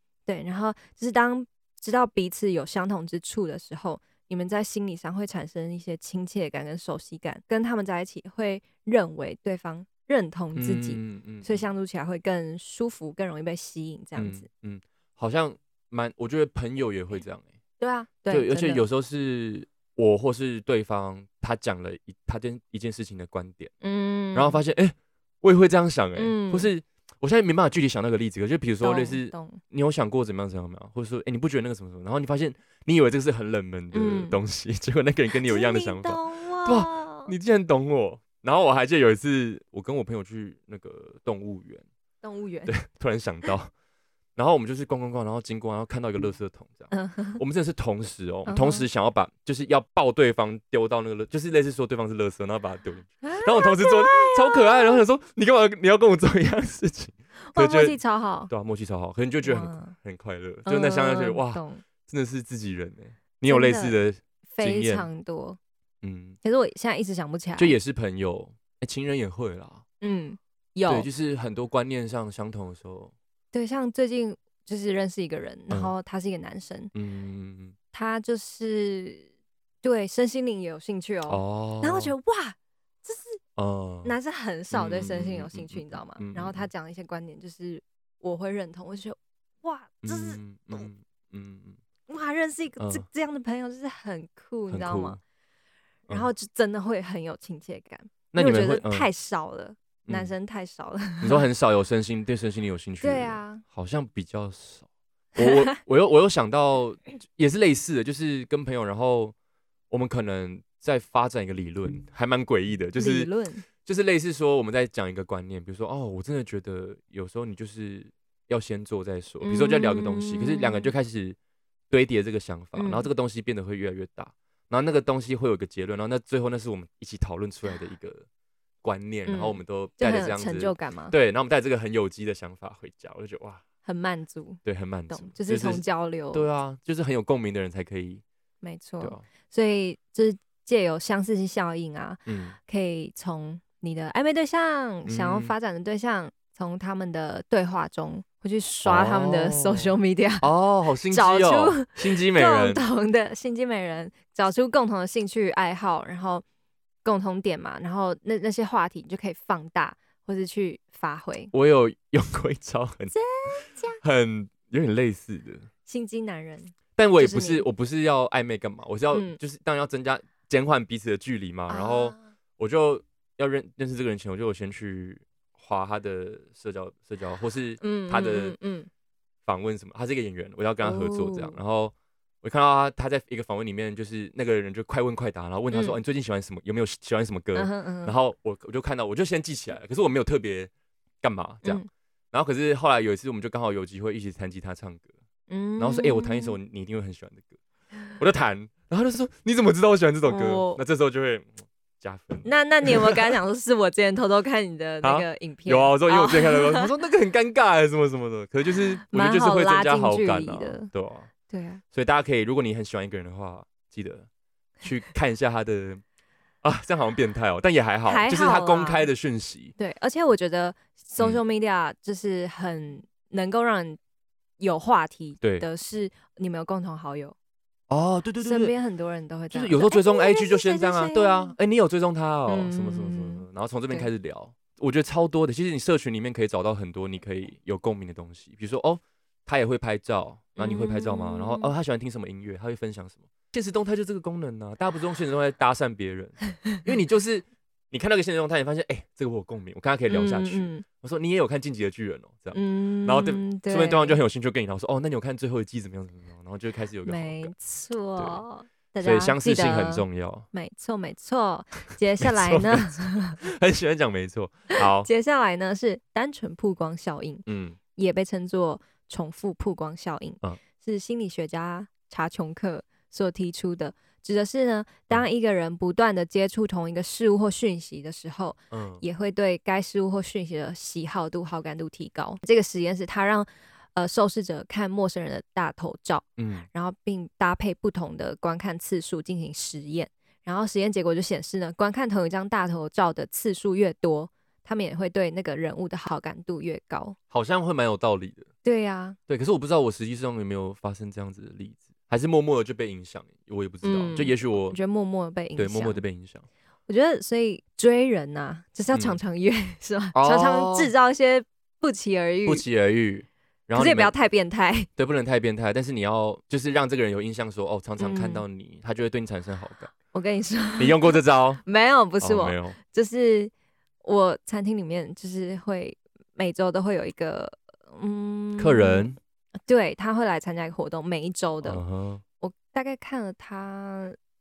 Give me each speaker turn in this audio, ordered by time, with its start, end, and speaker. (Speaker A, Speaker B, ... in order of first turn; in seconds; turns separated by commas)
Speaker A: 0.3-14.5, Speaker B: 10.6-11.7, Speaker B: 14.2-17.5, Speaker A: 17.8-18.9, Speaker B: 18.3-23.7, Speaker A: 23.8-24.6, Speaker B: 24.3-41.9, Speaker A: 26.2-26.7, Speaker A: 28.8-29.6, Speaker A: 33.9-34.4, Speaker A: 35.4-37.3, Speaker A: 42.2-42.8, Speaker B: 42.7-43.7, Speaker B: 44.4-65.1, Speaker A: 46.9-47.4, Speaker A: 48.5-48.9, Speaker A: 53.2-55.0, Speaker A: 57.4-58.5, Speaker A: 59.4-60.0, Speaker A: 60.7-61.8, Speaker A: 63.5-64.0, Speaker A: 64.5-65.6, Speaker B: 66.0-66.4, Speaker A: 66.4-67.8, Speaker B: 67.6-69.8, Speaker A: 70.0-71.1, Speaker B: 70.9-73.1, Speaker A: 73.5-76.9, Speaker B: 76.9-77.8, Speaker A: 77.9-79.3, Speaker A: 79.8-83.4, Speaker B: 81.3-82.1, Speaker B: 83.6-84.2, Speaker A: 84.0-90.9, Speaker B: 84.7-86.7, Speaker B: 90.0-91.8, Speaker A: 92.1-95.2, Speaker B: 92.8-93.1, Speaker B: 94.7-95.2, Speaker A: 96.1-101.5, Speaker B: 98.3-99.1, Speaker B: 100.1-100.3, Speaker B: 101.2-104.9, Speaker A: 103.0-103.6, Speaker B: 105.4-109.3, Speaker A: 105.4-105.8, Speaker B: 109.9-113.3, Speaker A: 113.0-113.7, Speaker B: 113.8-121.4, Speaker A: 119.4-120.9, Speaker B: 121.9-128.3, Speaker A: 122.8-123.1, Speaker B: 128.8-133.6, Speaker A: 129.3-131.2, Speaker A: 133.8-136.5, Speaker B: 134.7-138.2, Speaker A: 138.6-150.5, Speaker B: 142.3-142.6, Speaker B: 145.1-145.5, Speaker B: 148.8-152.8, Speaker A: 151.1-156.4, Speaker A: 157.0-161.5, Speaker B: 161.5-163.1, Speaker A: 163.1-164.0, Speaker B: 164.0-165.7, Speaker A: 165.9-167.7, Speaker B: 167.0-178.6, Speaker A: 169.1-169.4, Speaker A: 171.7-172.2, Speaker A: 177.8-178.9, Speaker B: 179.5-190.7, Speaker A: 180.8-181.6, Speaker A: 185.7-186.0, Speaker A: 187.6-188.2, Speaker B: 191.2-195.1, Speaker A: 195.5-196.6, Speaker B: 195.8-197.6, Speaker B: 198.2-203.3, Speaker A: 200.3-200.8, Speaker A: 202.4-206.9, Speaker B: 205.0-211.3, Speaker A: 209.0-210.9, Speaker A: 211.5-211.8, Speaker B: 211.9-214.3, Speaker B: 214.8-216.0, Speaker B: 216.6-219.8, Speaker A: 218.1-219.1, Speaker A: 219.8-224.0, Speaker A: 224.6-227.3, Speaker B: 225.4-225.7, Speaker B: 227.9-228.7, Speaker A: 228.4-231.6, Speaker B: 229.5-257.5, Speaker A: 232.5-234.1, Speaker A: 240.6-241.7, Speaker A: 250.1-250.8, Speaker A: 252.5-254.2, Speaker A: 257.1-263.4, Speaker B: 258.2-258.4, Speaker B: 259.0-260.5, Speaker B: 262.2-265.1, Speaker A: 264.7-297.2, Speaker B: 267.5-267.8, Speaker B: 278.7-279.0, Speaker B: 286.4-286.7, Speaker B: 297.3-298.5, Speaker A: 298.6-299.2, Speaker B: 299.3-304.8, Speaker A: 303.8-306.0, Speaker B: 305.6-306.5, Speaker A: 306.9-312.6, Speaker B: 308.9-309.2, Speaker B: 310.1-310.9, Speaker B: 312.5-314.1, Speaker A: 313.8-314.9, Speaker B: 315.0-319.9, Speaker A: 318.0-318.4, Speaker A: 320.1-323.5, Speaker B: 320.8-321.6, Speaker B: 322.2-322.8, Speaker A: 324.0-329.1, Speaker B: 328.6-329.2, Speaker A: 329.7-331.8, Speaker B: 331.6-332.2, Speaker A: 332.4-334.2